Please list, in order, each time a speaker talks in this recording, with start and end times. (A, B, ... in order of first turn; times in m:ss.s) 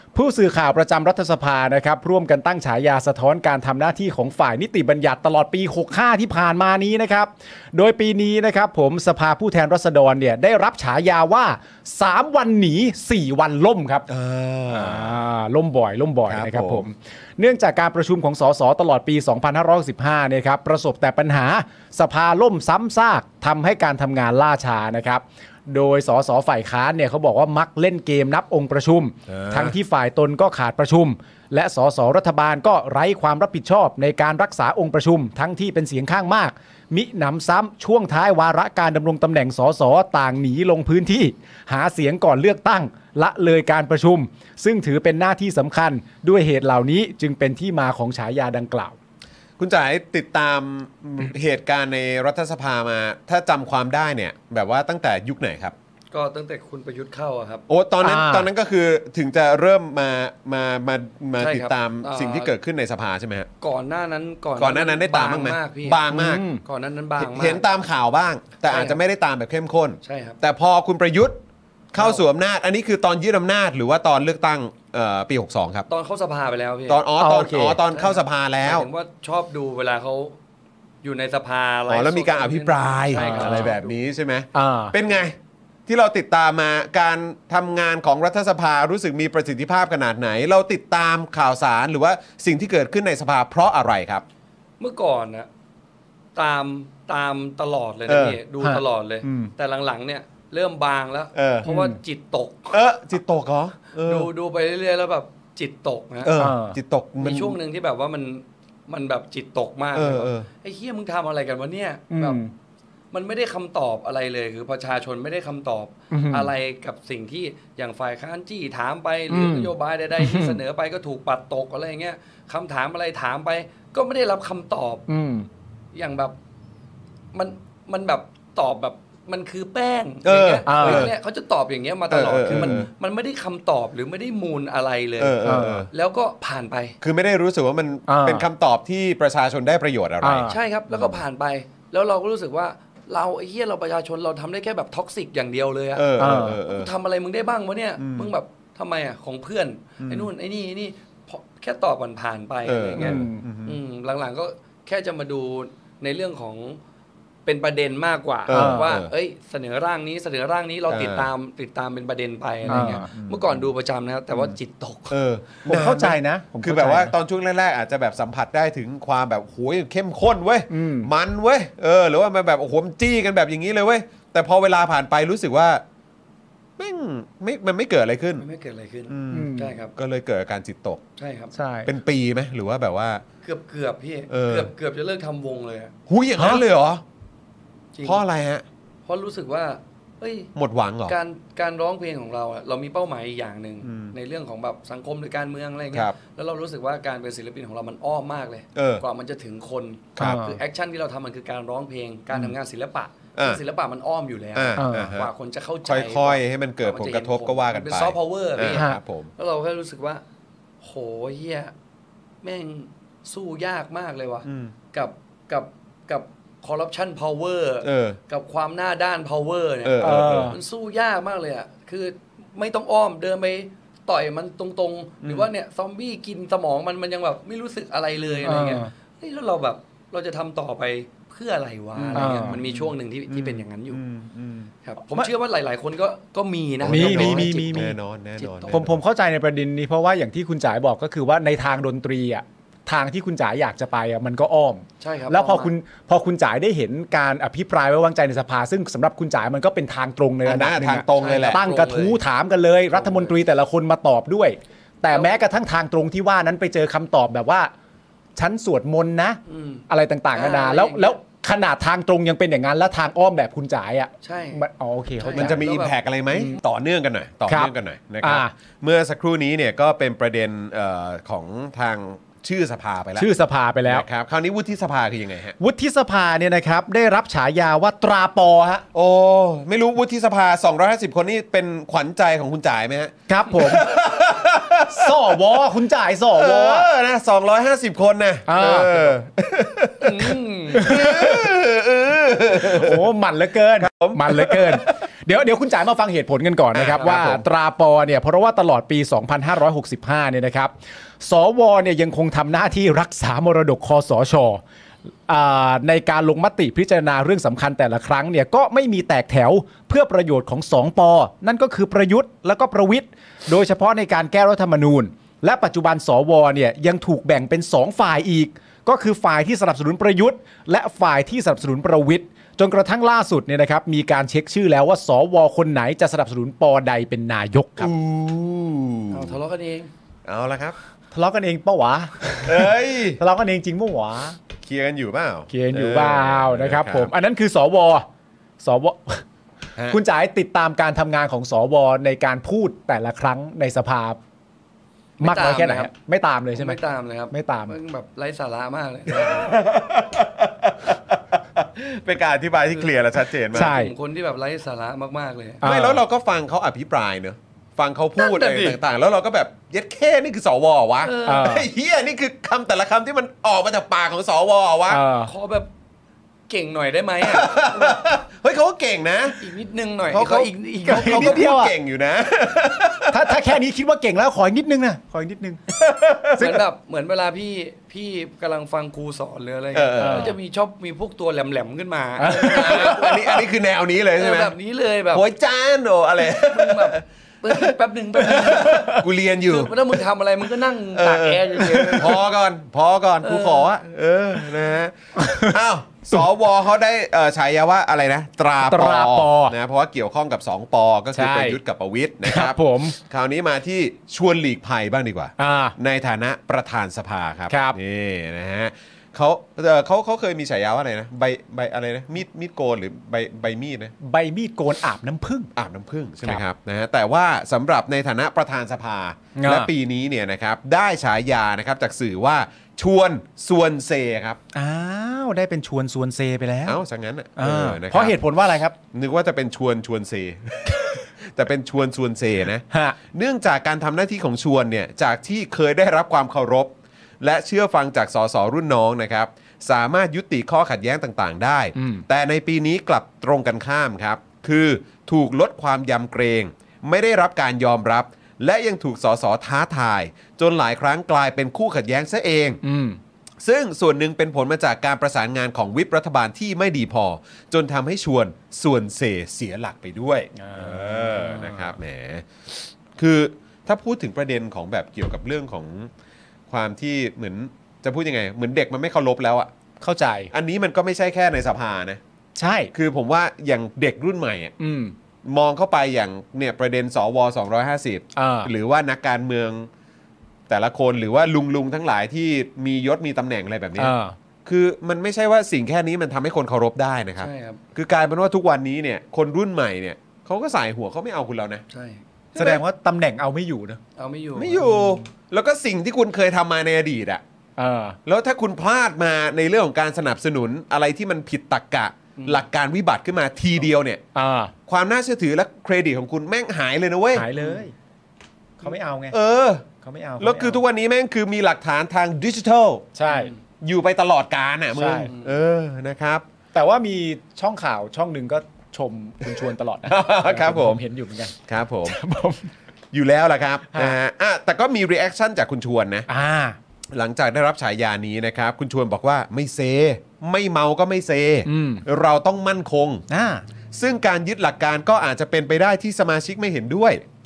0:00.1-0:14.0 A
0:14.1-0:15.2 B
0:14.7-0:49.0 A
0:16.2-0:16.8 B
0:29.3-0:29.7 B
0:49.6-0:55.7 B
0:56.1-0:57.6 C
0:57.7-1:03.5 B
0:58.0-0:58.5 A
1:01.4-1:02.5 C
1:03.6-1:06.0 C
1:04.6-1:06.4 B
1:06.1-1:06.6 A
1:06.6-1:07.6 C
1:07.2-1:11.4 B
1:08.7-1:09.0 C
1:10.0-1:10.4 C
1:11.9-1:15.9 B
1:12.0-1:12.2 C
1:15.9-1:17.0 C
1:16.9-1:18.8 B
1:17.2-1:17.8 A
1:17.9-1:20.4 C
1:21.0-1:23.9 C
1:21.9-1:25.3 B
1:23.2-1:23.7 A
1:24.5-1:24.9 A
1:25.9-1:34.2 B
1:34.8-1:35.5 C
1:36.3-1:42.8 C
1:38.1-1:38.4 B
1:39.2-1:39.5 B
1:41.3-1:41.7 B
1:41.6-1:42.0 A
1:42.7-1:44.3 B
1:44.0-1:46.3 C
1:46.2-1:47.6 B
1:46.4-1:46.8 A
1:47.2-1:52.4 C
1:49.9-1:50.5 B
1:52.1-1:52.5 A
1:53.1-2:05.1 C
1:56.1-1:56.5 A
1:59.3-2:00.6 A
2:05.1-2:05.5 A
2:05.9-2:06.4 C
2:07.3-2:17.0 C
2:10.2-2:11.1 B
2:10.6-2:11.1 A
2:12.1-2:12.9 B
2:12.4-2:12.8 A
2:15.2-2:15.9 B
2:15.4-2:15.9 A
2:17.0-2:21.2 B
2:18.1-2:18.5 A
2:20.2-2:20.6 A
2:20.5-2:36.8 C
2:25.9-2:26.9 B
2:26.2-2:26.6 A
2:28.0-2:28.3 B
2:30.0-2:30.3 B
2:32.6-2:33.8 B
2:33.0-2:33.4 A
2:37.4-2:45.2 C
2:38.5-2:39.1 B
2:38.5-2:39.0 A
2:40.9-2:41.3 B
2:42.6-2:43.7 B
2:42.7-2:43.1 A
2:45.1-2:55.8 B
2:45.6-2:47.1 A
2:50.7-2:51.1 A
2:56.8-2:58.4 B
2:58.4-2:59.9 C
2:59.1-3:01.0 B
2:59.3-2:59.8 A
3:01.2-3:01.5 C
3:01.5-3:01.9 A
3:01.8-3:03.2 B
3:03.4-3:05.9 C
3:04.3-3:04.7 B
3:06.1-3:07.0 B
3:06.4-3:06.6 A
3:07.9-3:08.2 C
3:08.0-3:08.6 B
3:09.0-3:10.5 C
3:10.5-3:11.2 B
3:11.1-3:30.2 C
3:13.8-3:14.1 B
3:18.7-3:19.0 B
3:20.2-3:20.6 A
3:23.4-3:23.6 B
3:24.5-3:25.3 B
3:24.8-3:25.1 A
3:25.8-3:29.3 B
3:28.7-3:29.0 A
3:30.8-3:31.7 C
3:32.4-3:54.0 C
3:34.4-3:34.7 B
3:37.8-3:38.2 B
3:39.8-3:40.5 B
3:40.0-3:40.6 A
3:45.2-3:45.5 B
3:48.4-3:48.9 A
3:52.0-3:54.7 B
3:52.1-3:52.6 A
3:54.8-3:58.7 C
3:56.8-3:59.0 B
3:56.8-3:58.0 A
3:58.7-4:17.7 A
4:05.0-4:05.7 C
4:10.4-4:11.6 B
4:11.1-4:12.2 C
4:12.9-4:13.3 C
4:15.1-4:15.4 C
4:18.4-4:25.6 A
4:19.5-4:21.2 C
4:24.2-4:24.6 C
4:25.2-4:26.0 C
4:25.3-4:33.3 B
4:26.3-4:26.6 A
4:27.5-4:28.5 A
4:33.2-4:34.0 A
4:33.9-4:35.6 B
4:35.6-4:38.8 A
4:38.9-4:45.6 B
4:43.3-4:43.9 A
4:44.8-4:46.9 A
4:46.3-4:53.1 B
4:48.5-4:49.1 A
4:50.0-4:51.0 C
4:50.7-4:51.5 A
4:52.5-5:04.6 A
4:53.8-4:54.9 B
4:56.7-4:57.4 B
4:56.8-4:57.1 C
5:05.2-5:27.9 A
5:27.8-5:29.4 B
5:29.1-5:29.9 C
5:30.2-5:30.8 B
5:31.1-5:34.4 A
5:32.4-5:33.2 B
5:34.6-5:37.1 B
5:35.5-5:38.0 A
5:38.6-5:39.2 A
5:39.9-5:44.2 A
5:45.2-5:45.9 C
5:45.2-5:46.8 A
5:46.5-5:49.6 C
5:47.3-5:47.8 A
5:49.1-5:53.7 B
5:53.5-5:55.6 C
5:53.5-5:53.9 A
5:55.6-5:56.0 A
5:55.6-6:05.0 B
5:58.2-5:58.8 C
6:01.0-6:01.6 C
6:01.2-6:01.7 A
6:04.9-6:05.3 A
6:05.2-6:05.7 C
6:06.5-6:08.1 C
6:07.2-6:09.4 B
6:09.4-6:11.4 C
6:10.1-6:13.4 B
6:10.8-6:11.7 A
6:13.1-6:15.6 A
6:15.8-6:16.6 B
6:16.4-6:23.5 C
6:19.7-6:20.3 B
6:20.0-6:20.4 A
6:22.2-6:23.1 A
6:22.3-6:24.5 B
6:24.2-6:25.2 C
6:25.1-6:30.0 B
6:26.2-6:28.9 C
6:28.5-6:28.9 A
6:29.4-6:32.2 C
6:30.9-6:53.9 B
6:31.6-6:32.0 A
6:33.2-6:33.7 C
6:35.2-6:35.6 A
6:38.6-6:39.6 A
6:41.1-6:41.6 A
6:42.2-6:43.0 A
6:45.4-6:45.7 A
6:47.5-6:47.8 A
6:54.0-6:55.5 A
6:55.5-7:04.4 B
6:59.4-6:59.7 A
7:04.5-7:06.8 A
7:06.6-7:08.1 B
7:07.4-7:08.8 A
7:08.9-7:32.6 B
7:12.7-7:13.0 A
7:21.7-7:22.0 A
7:32.6-7:33.0 A
7:33.4-7:45.9 B
7:40.4-7:41.8 A
7:46.5-7:49.5 B
7:49.8-7:50.3 A
7:50.3-7:52.0 B
7:52.4-7:52.7 A
7:52.7-7:54.5 B
7:54.6-7:54.9 A
7:55.2-7:59.7 B
7:58.1-7:58.5 A
8:00.5-8:03.9 B
8:03.8-8:04.2 A
8:04.4-8:11.6 B
8:07.2-8:07.6 C
8:11.7-8:12.0 C
8:12.3-8:13.8 A
8:12.4-8:12.6 B
8:14.0-8:14.6 C
8:14.3-8:17.2 B
8:14.5-8:15.0 A
8:17.6-8:18.0 A
8:18.0-8:24.0 B
8:22.2-8:22.4 C
8:24.1-8:24.5 A
8:24.7-8:27.3 B
8:27.1-8:27.7 A
8:28.6-8:29.2 A
8:29.1-8:29.6 B
8:29.8-8:30.6 A
8:30.2-8:32.9 B
8:32.9-8:33.3 A
8:33.1-8:33.3 C
8:33.6-8:36.2 B
8:34.7-8:35.1 A
8:35.1-8:35.3 C
8:36.5-8:42.5 A
8:39.8-8:40.8 B
8:41.5-8:42.0 B
8:42.9-8:46.1 B
8:46.1-8:46.6 A
8:46.9-8:53.0 B
8:51.4-8:51.8 A
8:53.1-8:53.4 A
8:53.7-8:57.0 B